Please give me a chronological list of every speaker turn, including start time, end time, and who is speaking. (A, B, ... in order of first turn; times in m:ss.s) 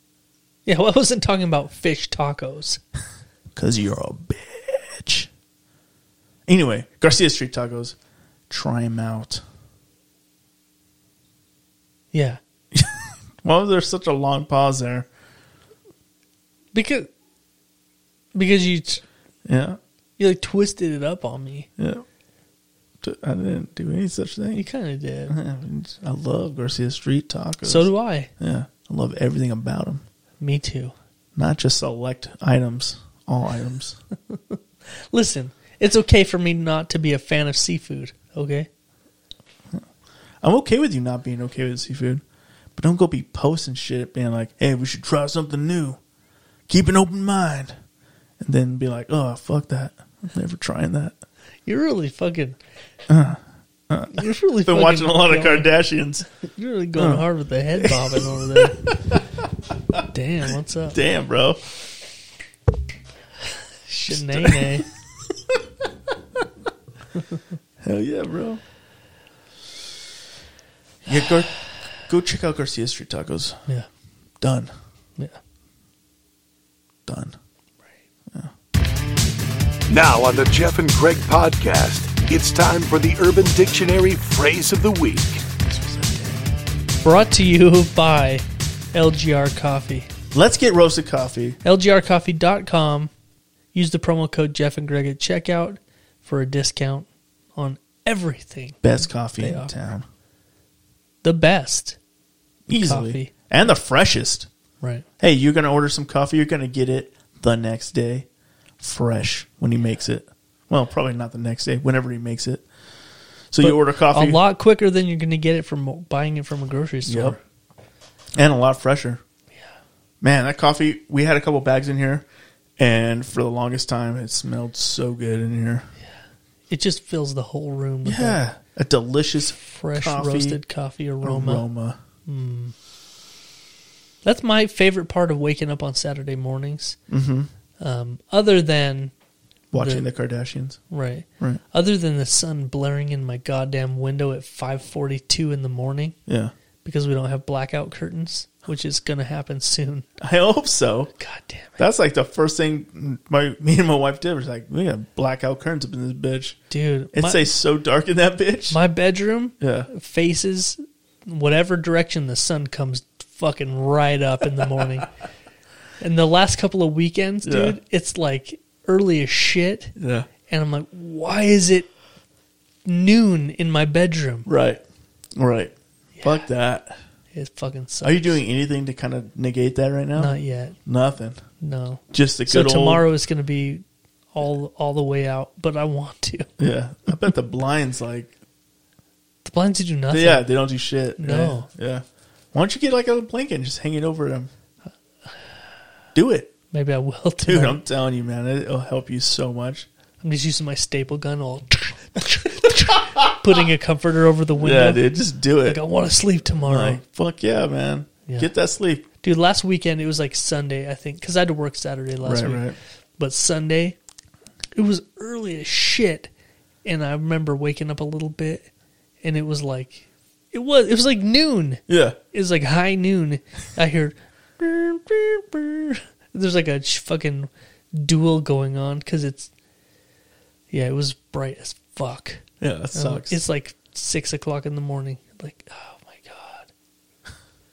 0:00.7-0:02.8 A
0:03.6-0:05.3 B
0:06.5-0:08.0 B
0:08.5-0:09.4 B
0:12.1-0:12.4 A
0:12.7-0:15.1 B
0:16.7-0:17.1 A
0:18.3-0:19.0 A
0:19.5-0:19.8 B
0:20.2-0:21.7 A
0:21.8-0:22.0 B
0:23.0-0:24.7 B
0:24.5-0:25.4 A
0:25.3-0:30.0 B
0:27.6-0:28.3 A
0:30.4-0:30.9 A
0:31.4-0:34.0 B
0:34.3-0:34.6 A
0:35.1-0:38.7 A
0:40.4-0:42.2 B
0:42.8-0:46.0 B
0:46.7-0:47.7 B
0:48.4-0:51.2 B
0:51.7-0:52.6 A
0:53.1-0:56.3 B
0:54.1-0:55.7 A
0:56.3-0:58.8 A
0:57.0-0:57.3 B
0:57.8-0:59.2 B
1:00.1-1:01.0 A
1:00.9-1:01.8 B
1:03.9-1:04.9 A
1:04.1-1:04.8 B
1:07.8-1:08.6 B
1:11.0-1:13.6 B
1:14.4-1:14.7 B
1:17.1-1:17.4 B
1:19.9-1:25.5 C
1:25.6-1:26.4 B
1:27.0-1:30.1 A
1:30.3-1:31.6 B
1:31.6-1:33.1 A
1:33.7-1:39.8 A
1:38.8-1:40.0 B
1:41.2-1:42.0 A
1:42.7-1:44.5 B
1:42.8-1:43.3 A
1:45.2-1:48.3 B
1:48.8-1:52.7 B
1:53.5-1:54.4 B
1:53.6-1:57.4 A
1:57.1-1:57.4 B
1:58.4-1:59.2 B
2:00.2-2:02.3 B
2:02.8-2:05.9 B
2:06.7-2:08.4 A
2:08.0-2:10.6 B
2:09.7-2:11.6 A
2:11.2-2:12.0 B
2:12.3-2:12.7 A
2:14.2-2:17.0 A
2:17.1-2:17.5 B
2:17.8-2:19.1 A
2:19.7-2:20.8 B
2:19.7-2:20.1 A
2:20.9-2:26.2 A
2:26.3-2:26.5 B
2:26.8-2:30.1 A
2:30.2-2:31.1 B
2:31.2-2:31.8 A
2:31.8-2:36.6 B
2:36.7-2:37.5 A
2:37.1-2:38.8 B
2:38.7-2:45.1 A
2:39.6-2:39.9 B
2:46.0-2:50.0 A
2:47.4-2:47.8 B
2:50.0-2:50.3 B
2:50.5-2:51.9 A
2:52.8-2:54.5 A
2:54.5-2:54.8 B
2:55.4-2:57.0 B
2:56.2-2:56.5 A
2:57.3-2:58.4 A
2:58.0-3:01.4 B
3:00.2-3:00.8 A
3:01.6-3:06.5 A
3:02.1-3:03.0 B
3:06.6-3:08.3 B
3:09.4-3:10.5 A
3:10.1-3:14.5 B
3:11.2-3:11.7 A
3:16.2-3:16.5 B
3:16.7-3:17.8 A
3:17.4-3:19.9 B
3:20.2-3:25.0 A
3:24.6-3:25.8 B
3:25.6-3:27.0 A
3:26.7-3:29.1 B
3:29.2-3:34.0 A
3:32.2-3:32.8 B
3:34.7-3:36.3 A
3:36.8-3:38.7 A
3:39.2-3:49.5 A
3:41.9-3:42.2 B
3:50.7-3:56.7 A
3:52.6-3:53.4 B